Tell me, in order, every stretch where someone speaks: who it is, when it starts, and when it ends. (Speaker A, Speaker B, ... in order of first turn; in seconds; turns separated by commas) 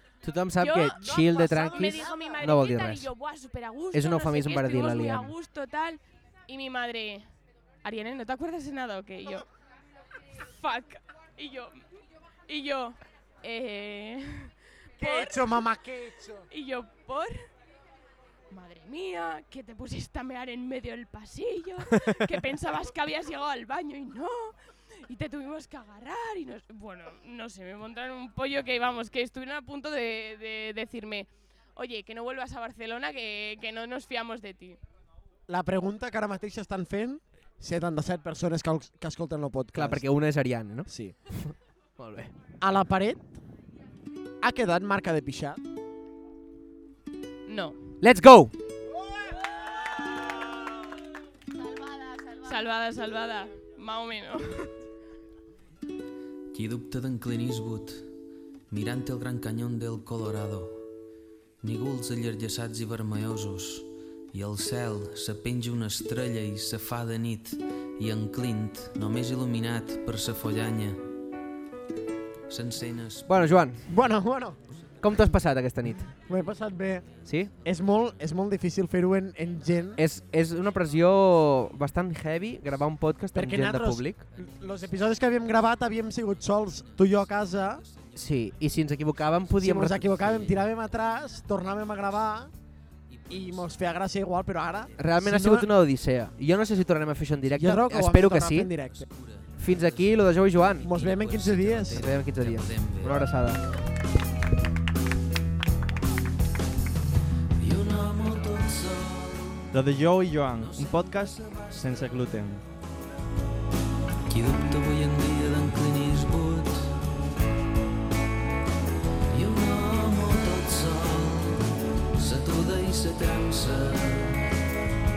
Speaker A: 0.2-3.1, Speaker B: 0.6-7.2, Speaker C: 1.0-2.4, Speaker A: 3.9-5.3, Speaker B: 7.8-9.5, Speaker B: 10.4-11.8, Speaker B: 12.5-15.7, Speaker C: 15.0-16.5, Speaker B: 16.5-17.5, Speaker B: 18.5-34.8, Speaker C: 35.5-40.0, Speaker A: 39.7-42.3, Speaker C: 40.9-41.1, Speaker C: 42.6-43.2, Speaker C: 44.4-45.6, Speaker B: 47.5-47.8, Speaker A: 48.0-48.5, Speaker B: 52.4-54.7, Speaker D: 56.5-58.1, Speaker D: 58.7-60.9, Speaker D: 61.6-71.0, Speaker D: 72.5-73.7, Speaker A: 73.3-73.8, Speaker C: 73.9-74.6, Speaker A: 75.0-76.1, Speaker C: 76.3-77.1, Speaker A: 77.2-77.5, Speaker C: 77.6-80.0, Speaker A: 80.0-84.2, Speaker C: 83.3-87.8, Speaker D: 86.7-88.2, Speaker A: 88.2-90.4, Speaker C: 89.6-92.5, Speaker D: 90.0-90.6, Speaker D: 93.1-93.7, Speaker C: 93.3-95.7, Speaker A: 95.0-98.7, Speaker C: 97.5-99.1, Speaker D: 99.0-103.3, Speaker A: 99.6-100.9, Speaker C: 100.8-102.1, Speaker A: 101.9-103.6, Speaker D: 107.6-109.8, Speaker E: 109.7-112.6, Speaker D: 110.5-112.1, Speaker D: 114.3-117.0, Speaker D: 119.3-124.5